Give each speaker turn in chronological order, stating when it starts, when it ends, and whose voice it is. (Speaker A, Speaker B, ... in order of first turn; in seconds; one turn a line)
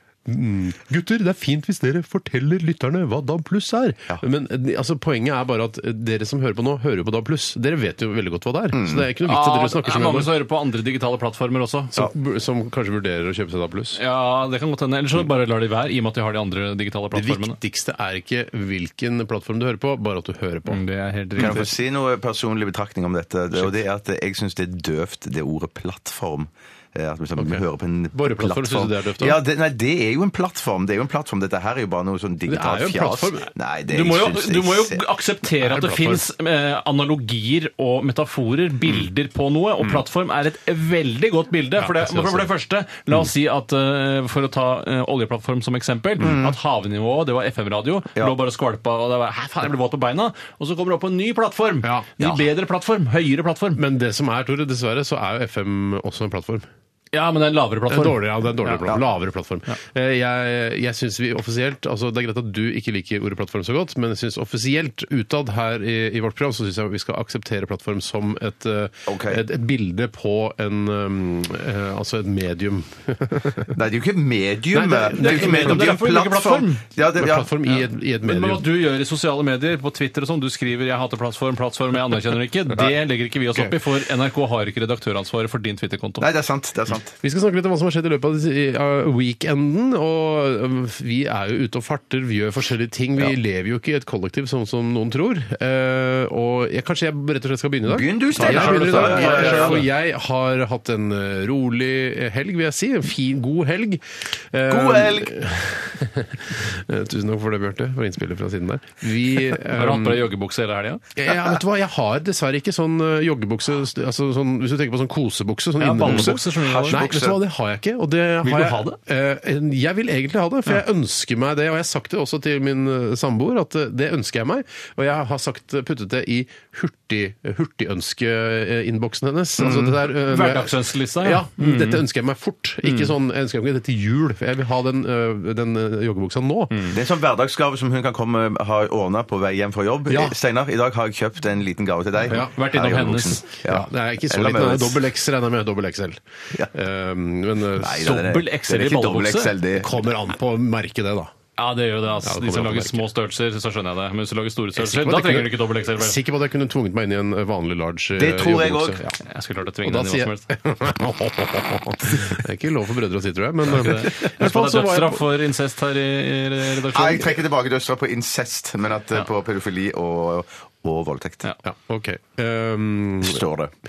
Speaker A: 0.2-10.3
Speaker B: 8.7-9.1
Speaker C: 9.2-11.9
Speaker A: 11.9-14.0
Speaker C: 13.9-17.6
Speaker A: 17.1-20.8
Speaker C: 20.7-21.7
Speaker B: 21.4-35.0
Speaker A: 21.4-21.6
Speaker A: 27.4-29.4
Speaker A: 32.5-33.5
Speaker C: 33.9-53.8
Speaker A: 35.6-36.2
Speaker A: 41.8-42.5
Speaker B: 46.2-46.5
Speaker A: 53.7-56.7
Speaker C: 57.1-58.9
Speaker A: 57.9-73.8
Speaker B: 69.1-69.4
Speaker B: 73.7-77.5
Speaker A: 74.7-76.0
Speaker C: 75.1-76.9
Speaker A: 77.2-78.7
Speaker C: 77.7-86.2
Speaker B: 86.2-87.1
Speaker A: 87.2-110.3
Speaker B: 97.9-99.8
Speaker C: 98.3-99.9
Speaker B: 104.7-105.3
Speaker C: 109.7-111.0
Speaker A: 111.2-136.8
Speaker C: 115.8-117.0
Speaker B: 116.0-117.4
Speaker C: 118.4-119.0
Speaker B: 129.6-129.9
Speaker C: 130.2-132.0
Speaker C: 132.8-133.1
Speaker B: 136.9-145.0
Speaker A: 140.1-140.4
Speaker A: 142.3-142.5
Speaker C: 142.3-143.5
Speaker A: 143.6-148.2
Speaker B: 147.8-150.0
Speaker C: 148.0-149.5
Speaker A: 149.7-151.3
Speaker C: 151.6-156.2
Speaker A: 152.2-153.0
Speaker A: 154.8-159.2
Speaker B: 158.2-159.0
Speaker C: 159.2-160.5
Speaker A: 159.8-165.2
Speaker C: 163.7-167.3
Speaker B: 166.9-171.5
Speaker A: 171.6-173.4
Speaker B: 173.2-173.7